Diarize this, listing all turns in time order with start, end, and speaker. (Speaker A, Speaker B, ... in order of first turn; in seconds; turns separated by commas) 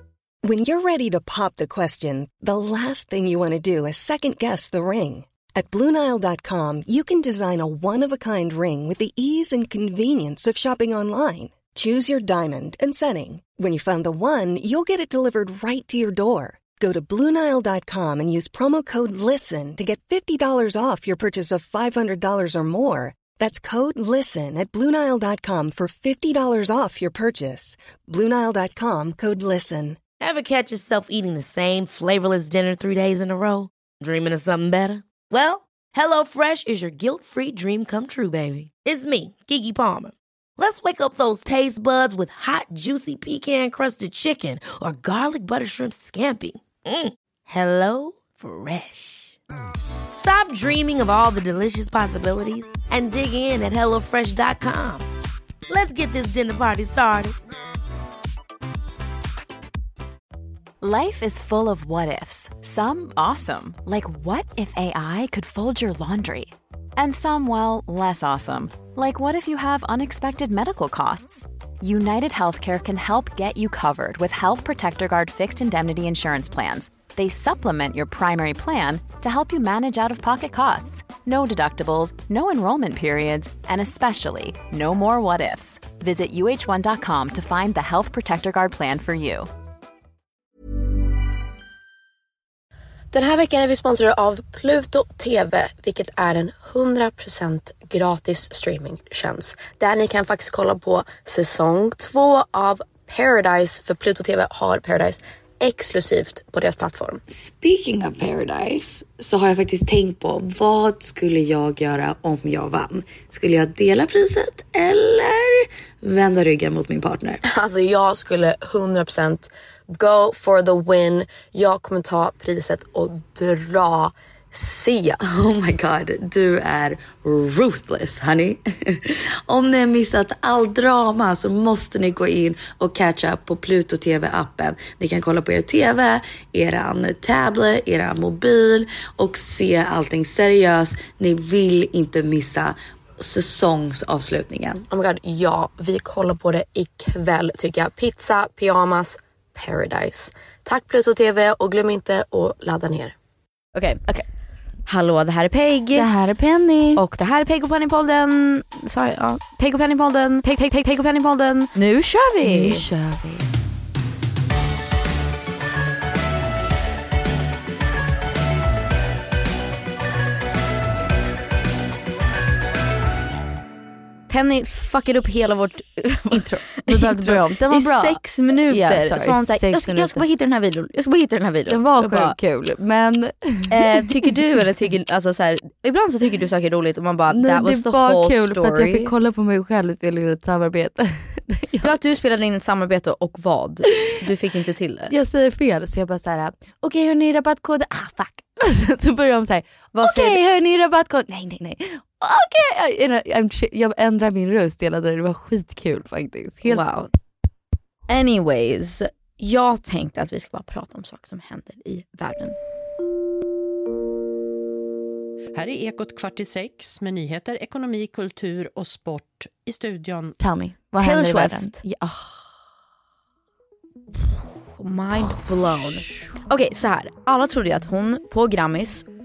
Speaker A: 0.4-30.0, Speaker B: 30.2-49.4, Speaker B: 50.1-55.1, Speaker B: 55.7-57.4, Speaker C: 60.8-89.5, Speaker D: 93.1-107.2, Speaker E: 107.3-117.4, Speaker D: 117.4-125.2, Speaker E: 125.2-144.9, Speaker D: 144.9-153.1, Speaker F: 153.7-154.2, Speaker F: 154.9-156.1, Speaker G: 155.9-157.0, Speaker F: 156.9-162.9, Speaker G: 162.4-163.5, Speaker F: 174.3-182.3, Speaker G: 176.3-180.2, Speaker G: 181.7-184.2, Speaker F: 183.7-189.1, Speaker G: 187.3-191.9, Speaker F: 191.8-195.1, Speaker G: 195.1-206.8, Speaker F: 199.9-200.4, Speaker F: 206.6-207.1, Speaker F: 208.1-212.6, Speaker H: 215.5-220.3, Speaker G: 220.4-222.3, Speaker F: 220.9-221.8, Speaker F: 224.2-229.1